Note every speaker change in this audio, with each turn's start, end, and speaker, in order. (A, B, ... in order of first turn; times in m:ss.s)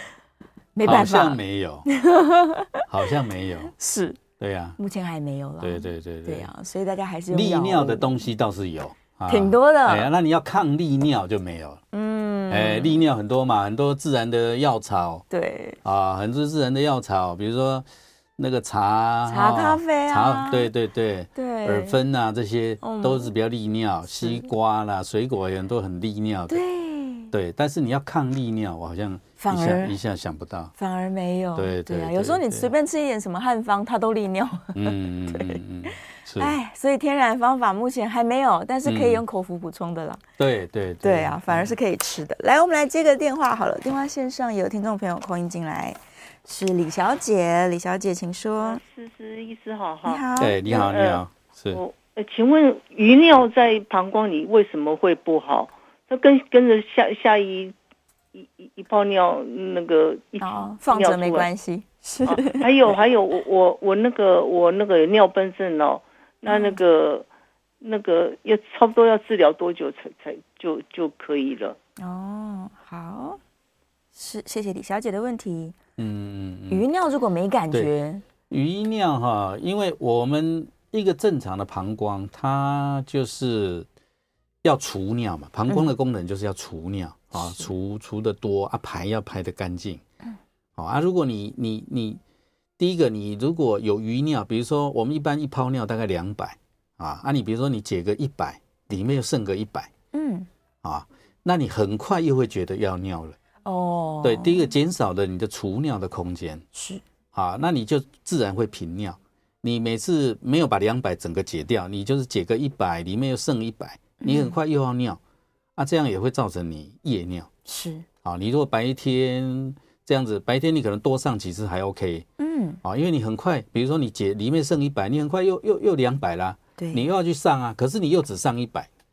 0:00.8-0:03.1 A
0:00.8-0:01.9 B
0:02.9-0:03.7 B
0:03.8-0:04.2 A
0:04.4-0:04.8 B
0:04.8-0:08.2 A
0:05.6-0:06.5 B
0:07.3-0:11.8 B
0:09.3-0:10.1 A
0:11.9-0:13.1 A
0:12.5-0:15.2 B
0:15.3-0:15.8 A
0:15.8-0:26.6 B
0:19.3-0:20.7 A
0:21.4-0:22.0 A
0:22.8-0:23.3 A
0:24.2-0:24.5 A
0:26.5-0:27.3 A
0:27.3-0:30.7 B
0:29.4-0:30.0 A
0:30.8-0:40.2 A
0:31.6-0:32.7 B
0:34.7-0:36.5 B
0:38.9-0:39.2 B
0:40.4-0:41.7 B
0:41.0-0:48.8 A
0:48.6-0:57.8 C
0:50.1-0:50.8 A
0:50.4-0:51.8 B
0:58.3-1:01.5 C
1:00.4-1:03.0 A
1:02.2-1:07.3 C
1:06.5-1:06.8 A
1:07.8-1:11.8 C
1:12.0-1:13.4 A
1:14.2-1:15.8 A
1:16.0-1:16.9 B
1:16.7-1:18.2 A
1:18.5-1:23.9 B
1:24.6-1:30.0 B
1:27.3-1:27.7 A
1:30.8-1:32.2 B
1:32.8-1:39.9 B
1:40.1-1:40.5 A
1:40.8-1:43.4 B
1:43.6-1:44.7 A
1:44.2-1:46.6 B
1:46.8-1:47.0 A
1:47.3-1:55.2 B
1:54.2-1:54.6 A
1:55.8-1:57.5 B
1:57.7-1:58.1 A
1:58.2-2:02.3 B
2:02.4-2:02.8 A
2:02.8-2:08.9 B
2:06.8-2:07.0 A